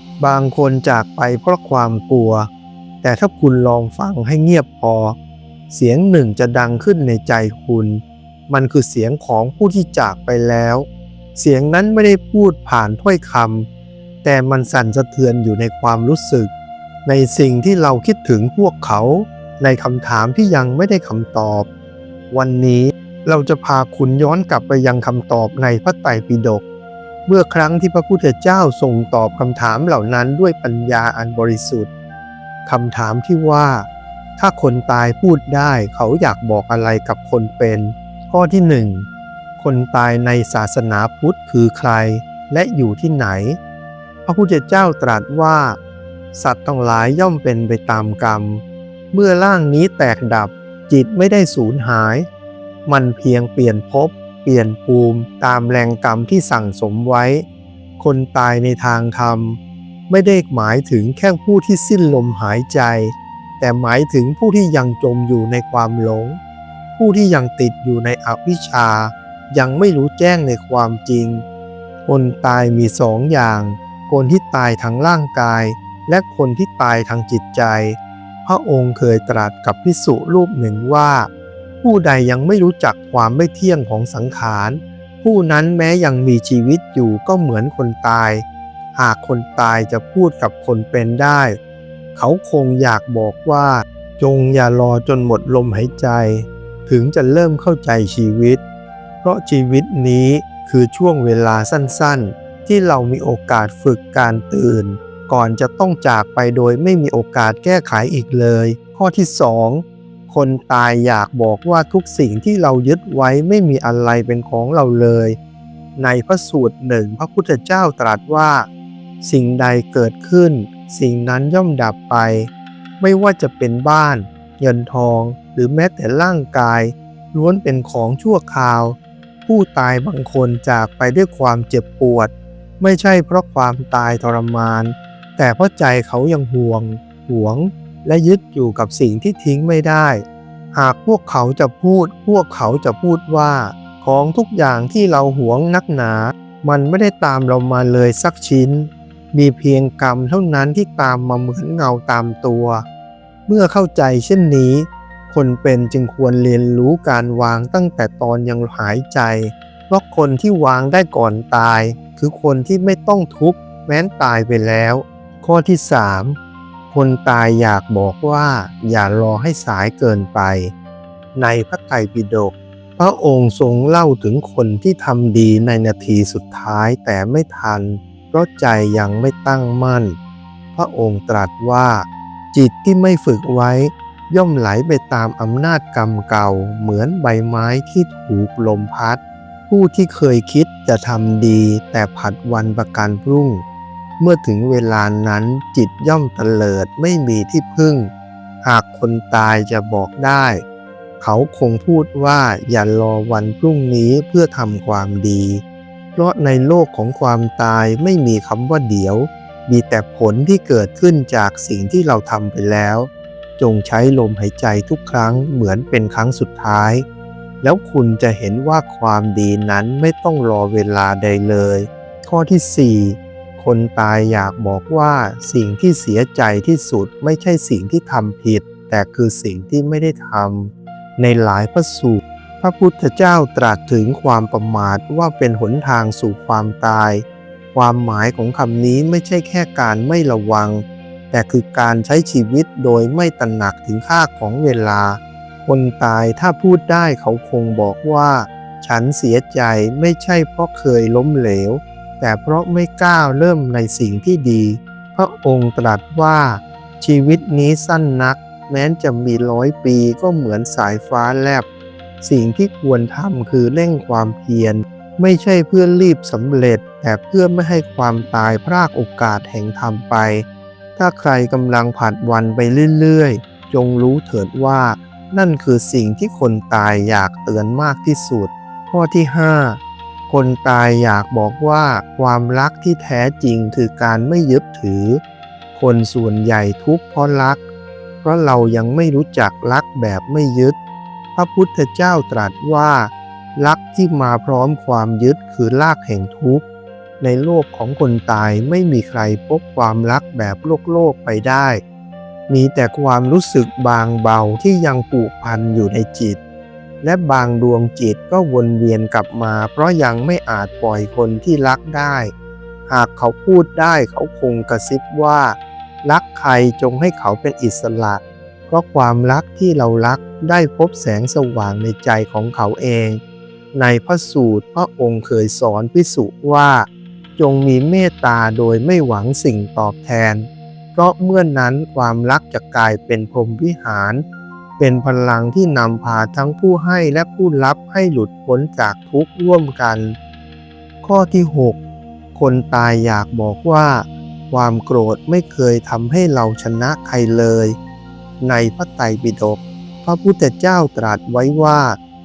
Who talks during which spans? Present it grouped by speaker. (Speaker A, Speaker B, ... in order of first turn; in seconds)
Speaker A: 0.2-2.5, 3.0-5.2, 5.7-13.7, 14.2-16.5, 17.0-21.7, 22.3-26.6, 27.3-31.9, 32.6-39.1, 39.6-43.6, 44.2-45.8, 46.3-52.3, 52.9-57.5, 58.0-59.6, 60.1-66.4, 67.0-71.4, 72.1-81.3, 81.8-91.6, 92.1-98.6, 99.2-115.4, 116.0-118.7, 119.2-152.8, 153.5-166.3, 166.9-170.7, 171.3-180.2, 180.7-193.6, 194.2-198.1, 198.6-200.6, 201.2-205.6, 206.2-217.0, 217.6-261.6, 262.2-285.2, 285.7-287.6, 288.2-290.8, 291.4-296.6, 297.2-301.8, 302.5-306.4, 307.0-312.3, 312.9-323.2, 323.7-334.2, 334.8-340.1, 341.0-341.8, 342.3-347.8, 348.4-352.0